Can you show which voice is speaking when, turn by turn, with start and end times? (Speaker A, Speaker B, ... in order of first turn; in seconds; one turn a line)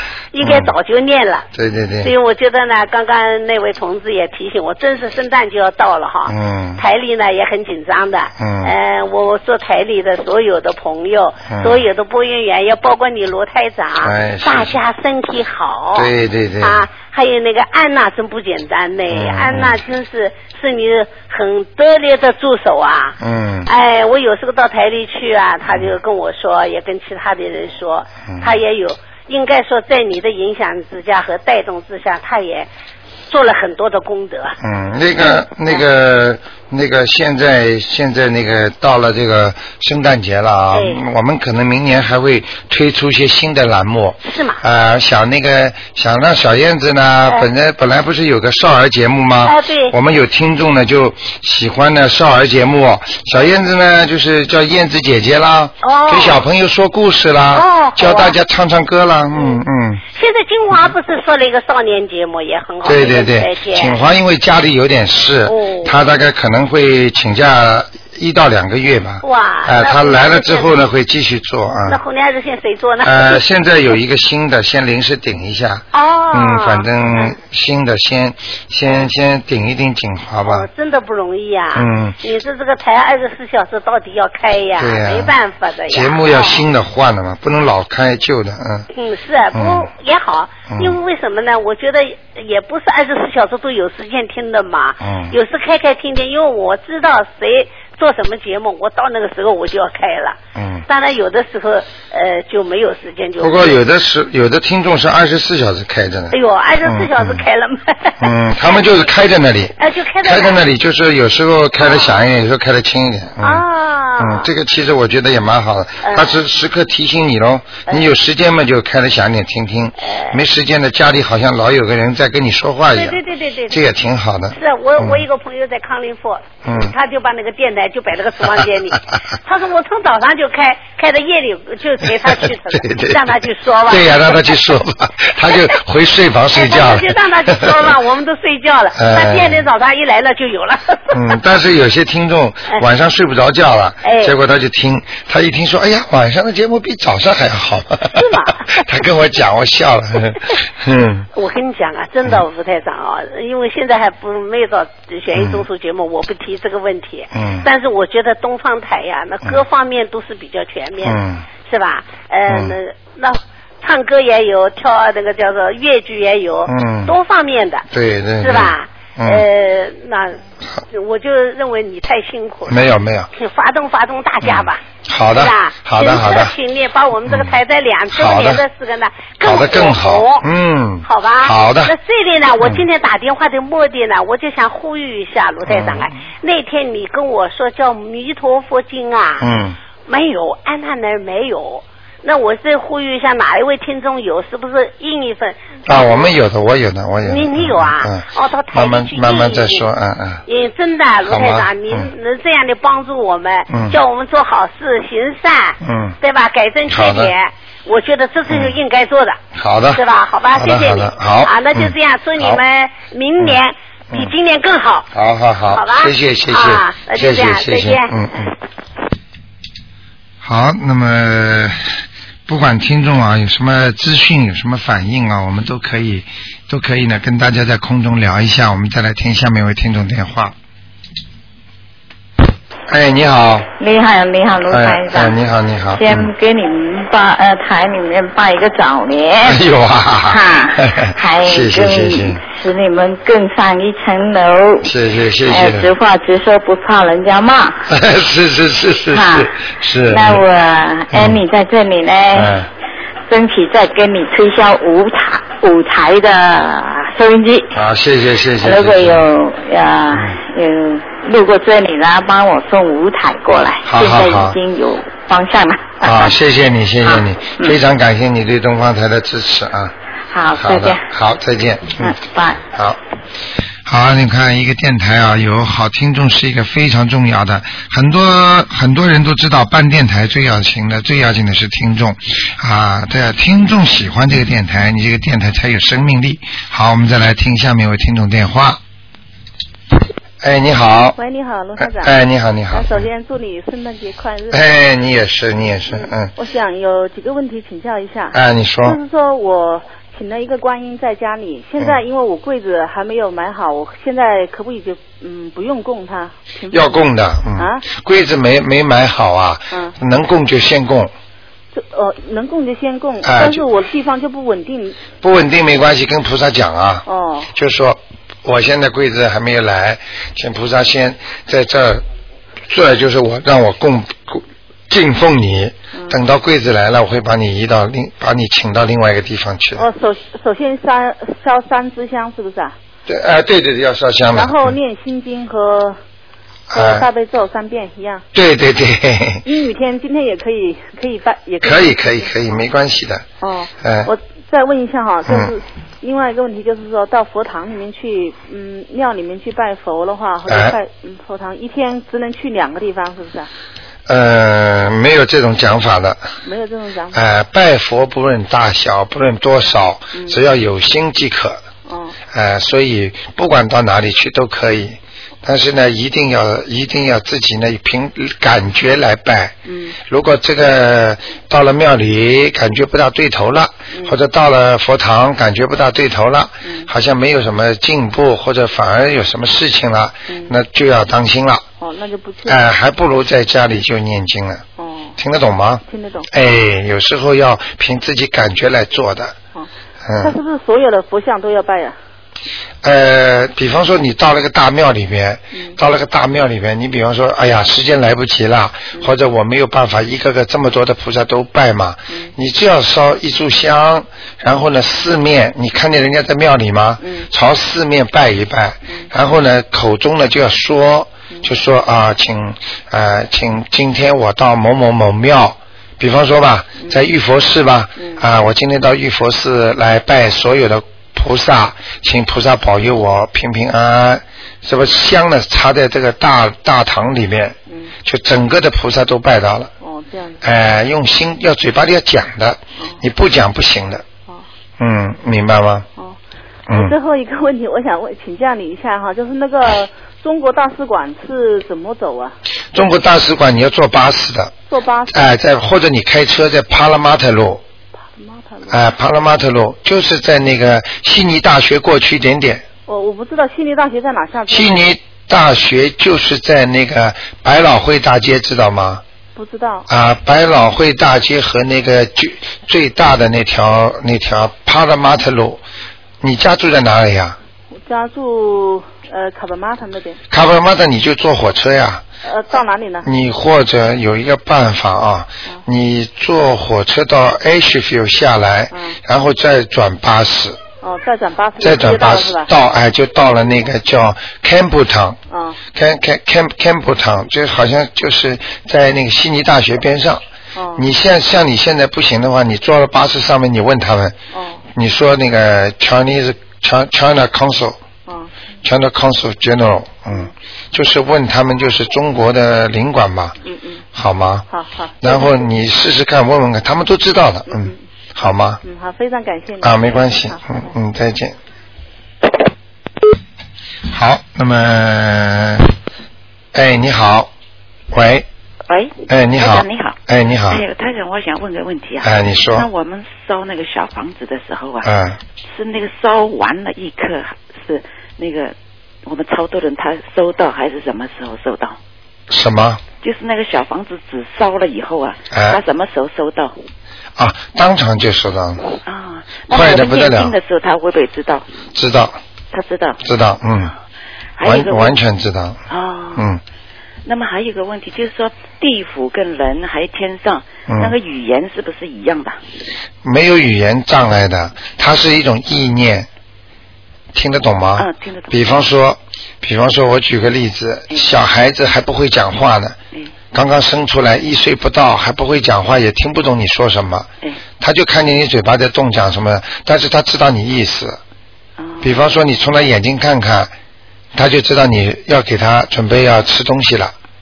Speaker A: 0.3-1.5
Speaker B: 0.4-0.7
Speaker B: 1.5-2.1
Speaker A: 2.0-32.7
Speaker B: 6.3-6.8
Speaker B: 8.4-8.7
Speaker B: 11.5-11.8
Speaker B: 14.0-14.8
Speaker B: 15.9-16.9
Speaker B: 19.1-19.8
Speaker B: 23.2-23.7
Speaker A: 33.3-34.5
Speaker B: 34.6-60.0
Speaker A: 35.2-35.8
Speaker A: 40.7-41.0
Speaker A: 44.2-44.6
Speaker A: 49.4-49.9
Speaker A: 55.8-56.4
Speaker A: 57.5-58.3
Speaker A: 59.3-59.6
Speaker A: 60.1-64.0
Speaker B: 62.8-72.0
Speaker A: 65.5-66.0
Speaker A: 69.2-70.7
Speaker A: 71.9-73.4
Speaker B: 73.0-80.7
Speaker A: 75.9-77.3
Speaker A: 80.4-86.6
Speaker B: 81.7-82.2
Speaker B: 84.8-85.3
Speaker B: 85.9-88.9
Speaker A: 88.9-103.8
Speaker B: 89.5-89.9
Speaker B: 90.7-91.0
Speaker B: 95.0-95.3
Speaker B: 100.5-100.8
Speaker B: 103.4-107.4
Speaker A: 106.3-108.9
Speaker B: 108.2-113.6
Speaker A: 109.8-110.6
Speaker A: 111.8-112.2
Speaker A: 113.4-114.5
Speaker B: 114.2-123.2
Speaker A: 116.0-116.4
Speaker A: 120.0-120.4
Speaker A: 122.9-123.8
Speaker B: 123.7-125.2
Speaker A: 124.5-134.6
Speaker B: 126.7-126.9
Speaker B: 132.1-133.3
Speaker B: 133.9-137.9
Speaker A: 136.5-141.2
Speaker B: 139.0-139.7
Speaker B: 141.1-151.3
Speaker A: 144.0-144.3
Speaker A: 148.1-148.8
Speaker A: 151.3-167.8
Speaker B: 155.3-155.6
Speaker B: 157.3-157.7
Speaker B: 161.0-161.4
Speaker B: 162.5-162.8
Speaker B: 166.7-167.1
Speaker B: 167.9-169.4
Speaker A: 168.4-170.4
Speaker A: 170.9-180.4
Speaker B: 172.7-173.3
Speaker B: 174.4-176.5
Speaker B: 177.3-177.6
Speaker B: 178.1-178.6
Speaker B: 179.4-181.9
Speaker A: 181.0-189.4
Speaker B: 185.7-186.1
Speaker B: 189.4-189.8
Speaker A: 190.1-196.3
Speaker B: 195.9-200.4
Speaker A: 197.2-199.8
Speaker A: 200.5-209.4
Speaker B: 201.2-202.1
Speaker B: 203.7-204.0
Speaker B: 205.8-206.1
Speaker B: 206.9-207.3
Speaker B: 208.5-208.7
Speaker B: 209.5-210.0
Speaker A: 209.9-215.1
Speaker B: 210.5-212.6
Speaker B: 215.1-218.5
Speaker A: 215.7-218.5
Speaker B: 220.4-221.9
Speaker B: 222.5-230.5
Speaker B: 232.9-233.7
Speaker C: 233.8-235.4
Speaker B: 234.7-236.3
Speaker C: 235.9-239.6
Speaker B: 239.4-242.4
Speaker C: 240.2-244.9
Speaker B: 244.8-245.9
Speaker C: 245.4-247.9
Speaker B: 247.9-250.4
Speaker C: 249.1-249.5
Speaker C: 250.1-252.5
Speaker B: 251.1-251.4
Speaker B: 252.3-252.7
Speaker C: 253.3-257.7
Speaker B: 257.7-259.2
Speaker C: 258.6-266.4
Speaker B: 263.8-264.5
Speaker B: 266.0-269.9
Speaker C: 267.0-267.8
Speaker C: 270.3-271.0
Speaker B: 270.5-272.1
Speaker C: 272.0-272.6
Speaker B: 272.7-273.0
Speaker B: 273.8-288.8
Speaker B: 290.4-291.2
Speaker D: 291.1-292.2
Speaker B: 291.8-293.0
Speaker D: 292.7-294.8
Speaker B: 294.5-296.3
Speaker D: 295.9-307.8
Speaker B: 298.3-299.0
Speaker B: 306.7-311.1
Speaker D: 309.7-309.9
Speaker D: 311.7-315.0
Speaker B: 313.2-313.6
Speaker B: 315.2-322.0
Speaker D: 317.1-317.5
Speaker B: 322.7-329.9
Speaker D: 325.9-326.2
Speaker D: 329.8-332.7
Speaker B: 333.1-334.8
Speaker D: 334.3-336.0
Speaker B: 336.7-337.1
Speaker D: 336.7-338.2
Speaker B: 338.3-339.4
Speaker D: 339.4-342.3
Speaker B: 341.6-343.2
Speaker D: 343.4-353.5
Speaker B: 343.8-344.1
Speaker B: 345.3-345.5
Speaker B: 350.5-350.8
Speaker B: 354.1-356.3
Speaker D: 356.4-357.2
Speaker B: 357.1-361.6
Speaker D: 360.1-360.4
Speaker D: 361.9-362.2
Speaker B: 362.3-381.6
Speaker D: 369.6-369.9
Speaker D: 373.9-374.2
Speaker D: 376.6-376.9
Speaker D: 380.3-380.5
Speaker D: 381.8-382.6
Speaker B: 382.4-384.6
Speaker D: 384.8-385.2
Speaker B: 385.2-389.4
Speaker D: 385.9-386.3
Speaker D: 389.5-392.0
Speaker B: 390.0-390.3
Speaker B: 392.8-429.7
Speaker D: 407.0-407.3
Speaker D: 418.0-418.2
Speaker D: 429.8-430.4
Speaker B: 430.4-434.0
Speaker D: 432.8-433.0
Speaker B: 434.8-435.9
Speaker B: 436.7-436.9
Speaker D: 436.7-442.4
Speaker B: 442.7-444.5
Speaker D: 444.7-445.3
Speaker B: 445.1-447.6
Speaker D: 448.1-448.8
Speaker B: 448.7-452.6
Speaker D: 452.9-454.9
Speaker B: 454.5-459.0
Speaker D: 459.3-459.9
Speaker B: 459.9-465.6
Speaker B: 466.2-467.4
Speaker D: 467.8-470.2
Speaker B: 470.3-472.0
Speaker D: 472.2-473.1
Speaker B: 473.0-480.6
Speaker D: 478.7-479.0
Speaker D: 480.8-482.5
Speaker B: 481.6-485.2
Speaker D: 485.3-485.6
Speaker B: 485.7-490.2
Speaker D: 490.5-490.9
Speaker B: 490.8-494.1
Speaker D: 494.3-494.6
Speaker B: 494.7-497.8
Speaker D: 498.1-498.3
Speaker B: 498.6-503.4
Speaker D: 503.4-503.8
Speaker B: 503.9-504.5
Speaker D: 504.5-505.4
Speaker B: 505.0-508.6
Speaker D: 507.5-507.8
Speaker D: 508.6-510.7
Speaker B: 509.6-511.4
Speaker B: 513.9-515.7
Speaker B: 516.5-517.3
Speaker B: 517.9-518.3
Speaker E: 518.7-520.0
Speaker B: 519.1-520.6
Speaker E: 520.5-524.9
Speaker B: 522.0-522.7
Speaker B: 524.8-525.2
Speaker E: 525.5-531.8
Speaker B: 532.3-532.8
Speaker E: 533.0-536.5
Speaker B: 535.3-535.6
Speaker B: 537.2-538.7
Speaker E: 538.8-541.5
Speaker B: 539.5-540.3
Speaker B: 541.7-542.2
Speaker E: 542.5-543.0
Speaker B: 543.0-543.7
Speaker E: 544.4-545.0
Speaker B: 544.4-545.6
Speaker E: 545.7-546.3
Speaker B: 546.1-546.4
Speaker E: 547.0-552.4
Speaker B: 550.7-550.9
Speaker B: 553.0-556.1
Speaker B: 557.1-562.8
Speaker E: 557.8-558.6
Speaker B: 563.3-567.1
Speaker B: 567.6-571.0
Speaker E: 571.6-572.1
Speaker B: 571.8-573.5
Speaker B: 574.1-576.9